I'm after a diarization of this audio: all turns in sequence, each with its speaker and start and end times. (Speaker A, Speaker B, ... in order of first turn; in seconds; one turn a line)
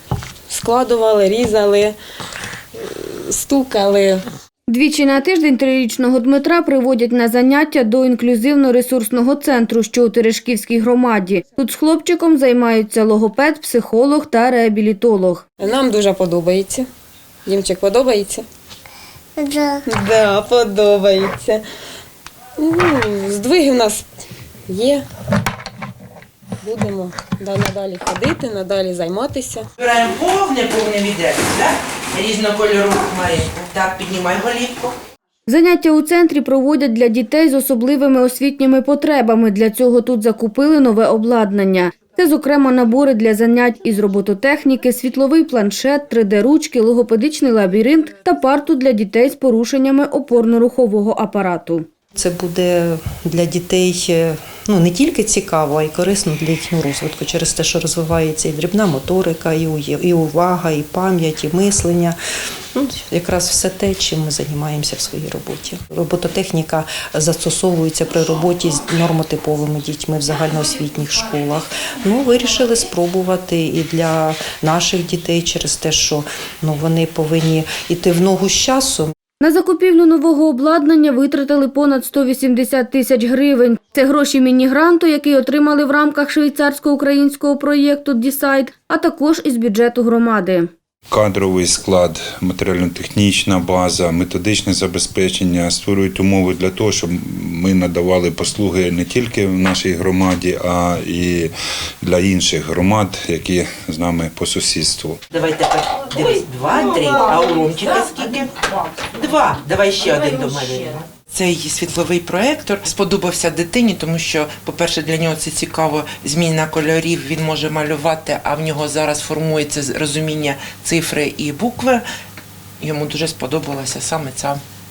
Speaker A: 0.5-2.0
Speaker A: 2.8-4.2
Speaker B: 4.7-15.4
Speaker A: 15.6-16.9
Speaker A: 17.5-18.5
Speaker A: 19.8-21.6
Speaker A: 22.6-24.1
Speaker A: 24.7-25.1
Speaker A: 26.6-29.7
Speaker C: 29.8-35.0
Speaker B: 35.5-51.9
Speaker D: 52.1-62.2
Speaker D: 62.7-79.1
Speaker B: 79.4-90.7
Speaker E: 91.1-101.5
Speaker E: 102.0-105.2
Speaker C: 105.3-122.0
Speaker C: 122.8-124.6